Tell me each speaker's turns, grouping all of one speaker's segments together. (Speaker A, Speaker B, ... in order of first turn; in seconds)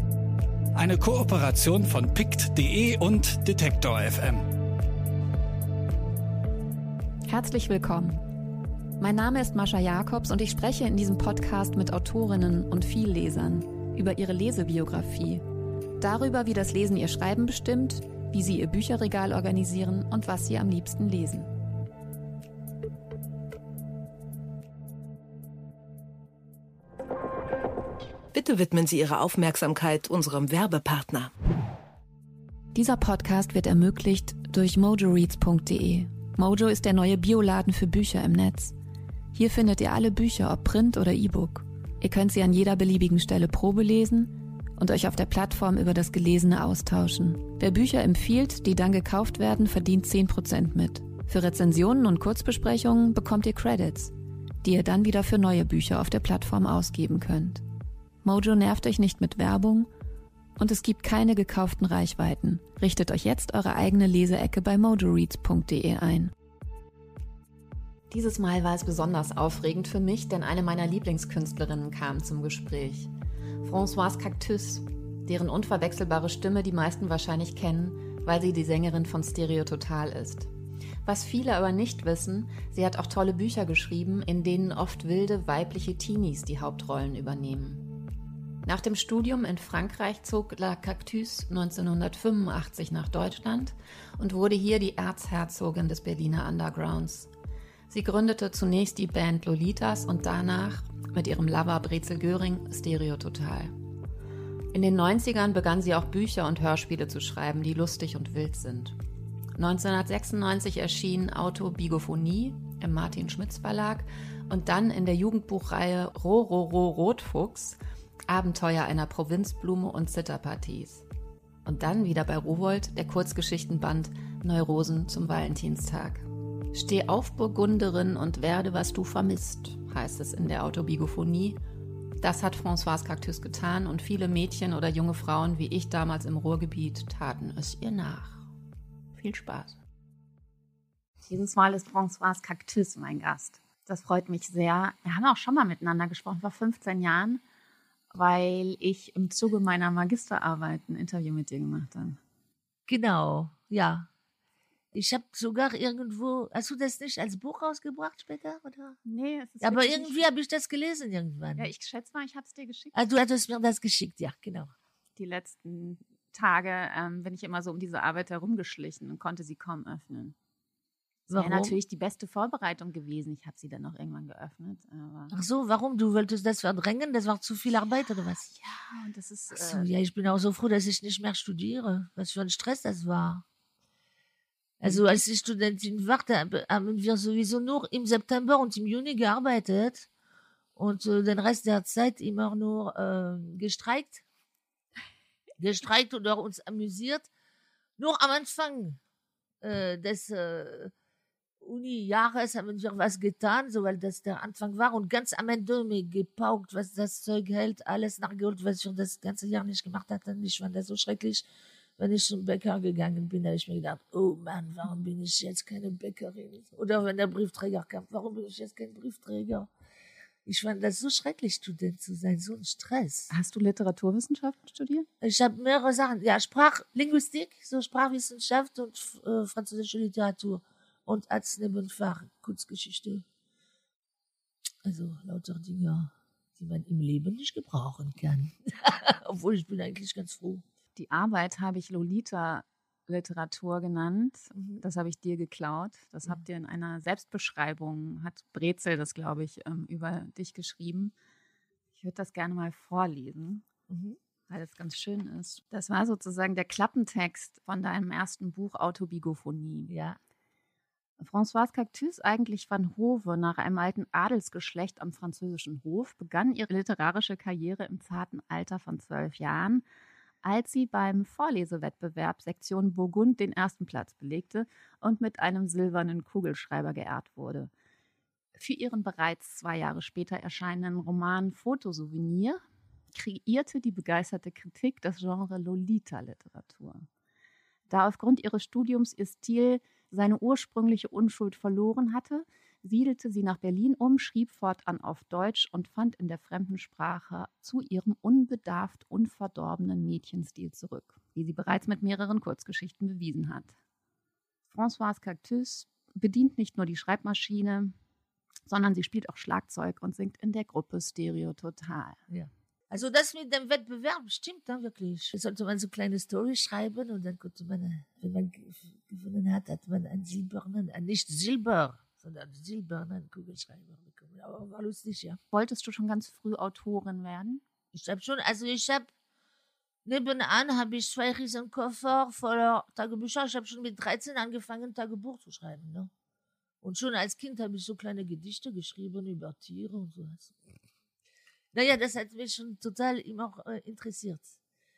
Speaker A: 0.7-4.5
Speaker B: 7.3-8.4, 9.0-15.4, 16.0-21.5, 32.7-38.7, 39.3-57.6, 58.2-59.9, 60.6-66.3, 68.1-73.1, 73.6-80.5, 81.0-88.0, 88.6-97.3, 97.9-103.7, 104.7-108.9, 109.5-121.0, 121.6-131.6, 132.2-138.5, 139.1-139.8
Speaker C: 28.3-31.3
Speaker D: 141.3-147.4, 148.1-152.2, 159.0-160.3, 161.6-162.9, 165.2-170.3, 171.3-175.3, 178.4-179.9, 184.8-185.2, 223.3-225.1, 240.9-251.1, 251.9-253.7, 254.5-259.9, 261.2-269.8, 270.4-277.7, 278.5-287.1, 287.9-303.8, 304.7-307.9, 308.6-312.2, 325.5-327.6
Speaker E: 152.9-154.1, 154.9-159.0, 159.6-161.7, 162.9-164.7, 171.3-171.8, 175.3-178.5, 179.5-183.4, 184.8-190.1, 190.8-194.2, 195.6-197.3, 198.0-199.0, 199.6-200.9, 201.6-211.4, 212.0-219.7, 220.4-223.3, 225.2-233.2, 234.8-240.6, 244.6-244.8, 253.9-254.2, 259.9-260.2, 312.3-325.4, 327.9-329.1, 330.1-336.1, 336.8-340.6, 341.7-344.5